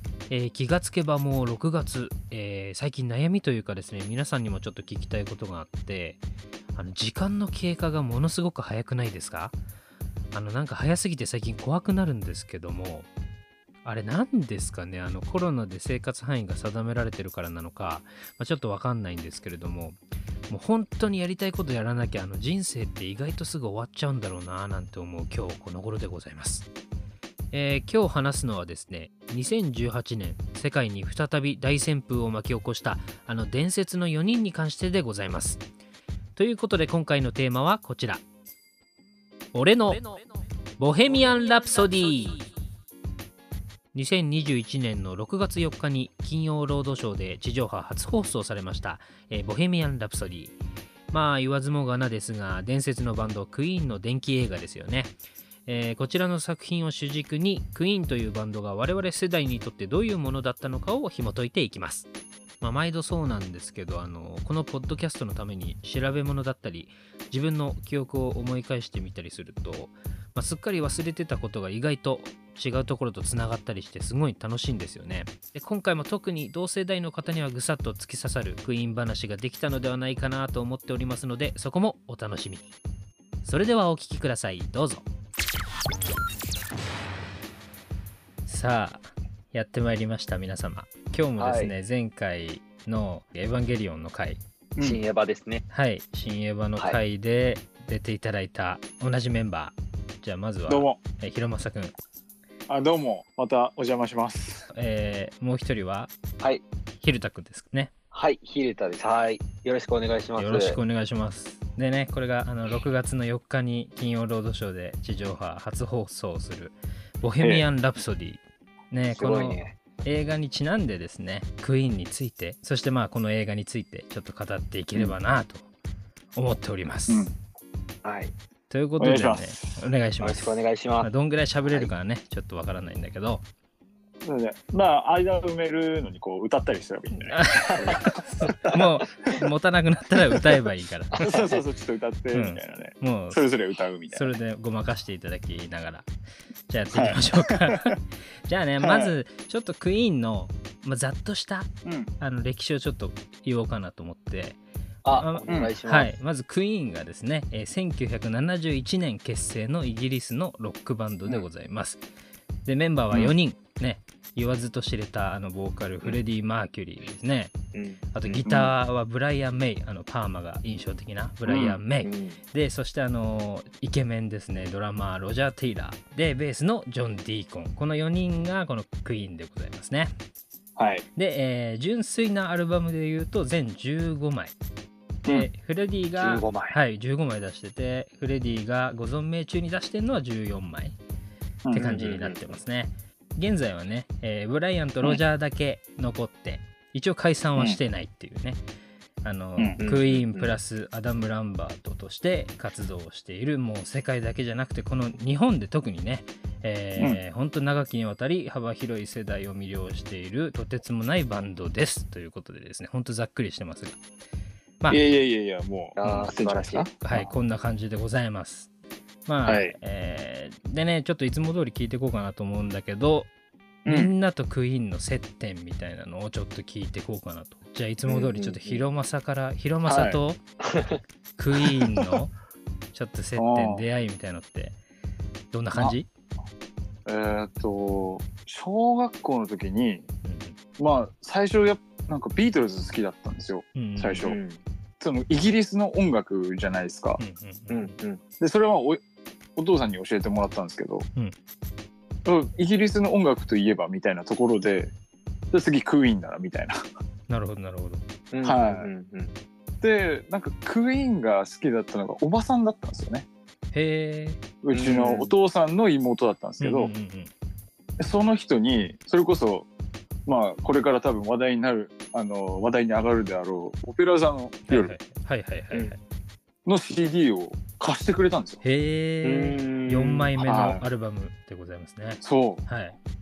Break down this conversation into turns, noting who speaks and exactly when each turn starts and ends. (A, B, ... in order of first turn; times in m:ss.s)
0:00.3-0:06.2 A
0:06.8-0:09.6 A
0:10.3-0:13.1 A
0:13.8-0:26.7 A
0:27.5-0:35.6 A
0:36.4-0:38.2 A
0:39.5-0:40.1 A
0:40.8-0:42.5 A
0:43.9-0:50.6 A
0:51.1-0:55.2 A
0:55.7-1:02.1 A
1:02.6-1:22.7 A
1:23.4-1:25.1 A
1:28.5-1:34.4 A
1:31.4-1:31.7 B
1:34.8-1:35.0 C
1:34.8-1:35.6 B
1:35.7-1:41.9 A
1:40.7-1:41.0 C
1:42.7-1:44.7 C
1:44.7-1:46.1 A
1:47.0-1:47.9 A
1:48.1-1:50.8 B
1:50.4-2:05.7 A
1:57.4-1:57.7 C
1:59.1-1:59.8 B
2:06.4-2:07.3 A
2:07.1-2:07.3 C
2:08.0-2:08.3 B
2:08.7-2:13.4 A
2:09.0-2:09.8 C
2:10.2-2:11.1 B
2:11.6-2:11.9 B
2:14.2-2:18.8 C
2:17.2-2:21.3 A
2:17.6-2:18.8 B
2:21.2-2:21.6 B
2:21.2-2:24.3 C
2:22.3-2:23.4 A
2:24.1-2:26.1 A
2:26.7-2:34.6 A
2:26.9-2:28.0 C
2:28.8-2:29.2 C
2:31.8-2:32.1 C
2:35.0-2:36.1 B
2:35.1-2:42.0 A
2:35.5-2:35.7 C
2:42.7-2:47.6 A
2:47.7-2:48.6 B
2:48.1-3:00.1 A
2:51.5-2:51.8 C
2:52.0-2:52.4 B
3:00.8-3:01.0 C
3:01.2-3:04.6 A
3:05.3-3:11.0 A
3:06.2-3:06.8 B
3:11.7-3:12.6 B
3:11.7-3:18.6 A
3:19.2-3:34.0 A
3:19.8-3:20.6 B
3:34.9-3:37.3 C
3:36.0-3:36.9 B
3:37.0-3:38.7 A
3:39.3-3:43.3 A
3:39.4-3:39.8 C
3:43.8-3:44.1 C
3:43.9-3:50.4 A
3:48.1-3:48.8 B
3:49.9-3:50.2 C
3:50.7-3:51.0 B
3:51.4-3:52.3 A
3:51.7-3:52.1 C
3:52.9-3:54.8 A
3:53.4-3:53.8 C
3:55.5-3:56.1 A
3:57.1-4:00.0 C
4:00.2-4:00.6 A
4:00.8-4:04.4 C
4:03.8-4:04.3 A
4:04.2-4:04.6 B
4:05.0-4:07.2 C
4:07.2-4:08.0 A
4:07.7-4:08.2 B
4:08.4-4:09.0 C
4:09.6-4:11.1 C
4:12.2-4:14.9 C
4:15.5-4:16.8 C
4:17.3-4:18.0 A
4:18.3-4:19.4 B
4:18.4-4:18.9 C
4:19.8-4:23.3 C
4:23.7-4:24.4 A
4:24.6-4:26.9 C
4:24.7-4:25.4 B
4:26.6-4:27.3 A
4:28.0-4:29.7 C
4:30.3-4:35.0 C
4:34.7-4:36.0 A
4:36.7-4:38.6 C
4:38.6-4:43.0 A
4:39.2-4:40.3 B
4:40.4-4:40.8 C
4:42.2-4:42.6 C